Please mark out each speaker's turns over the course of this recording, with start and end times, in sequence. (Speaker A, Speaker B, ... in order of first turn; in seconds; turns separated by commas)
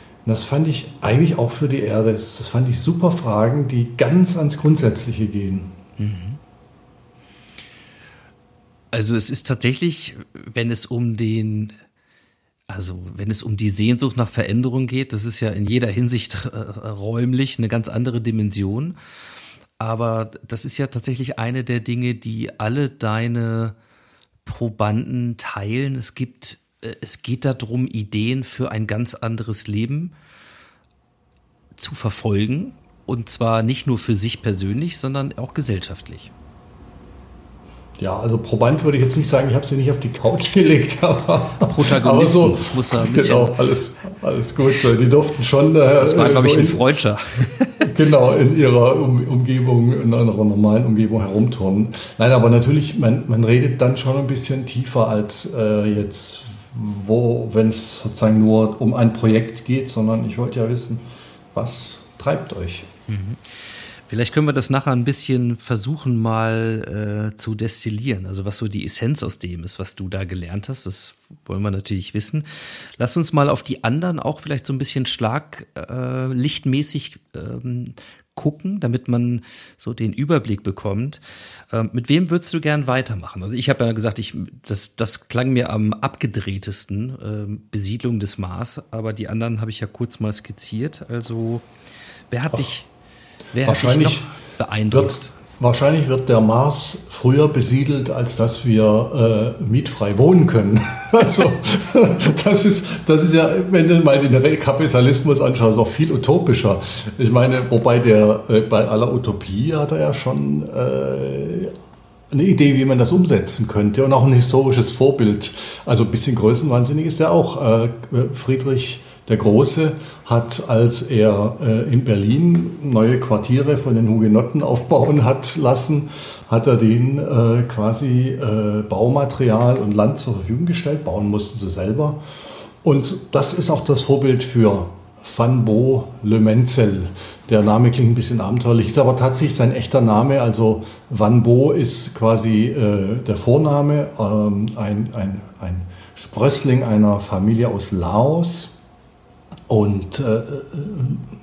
Speaker A: 0.2-5.8, Speaker B: 6.0-6.4, Speaker B: 8.9-11.8, Speaker B: 12.7-19.0, Speaker B: 19.8-23.8, Speaker B: 24.4-30.1, Speaker B: 31.8-36.3, Speaker A: 38.0-46.8, Speaker B: 41.6-43.5, Speaker B: 46.0-47.9, Speaker A: 47.8-62.9, Speaker B: 63.1-91.7, Speaker B: 92.3-92.9, Speaker B: 93.5-95.3, Speaker A: 93.6-94.3, Speaker A: 94.9-111.7, Speaker A: 112.3-148.7, Speaker A: 149.7-151.3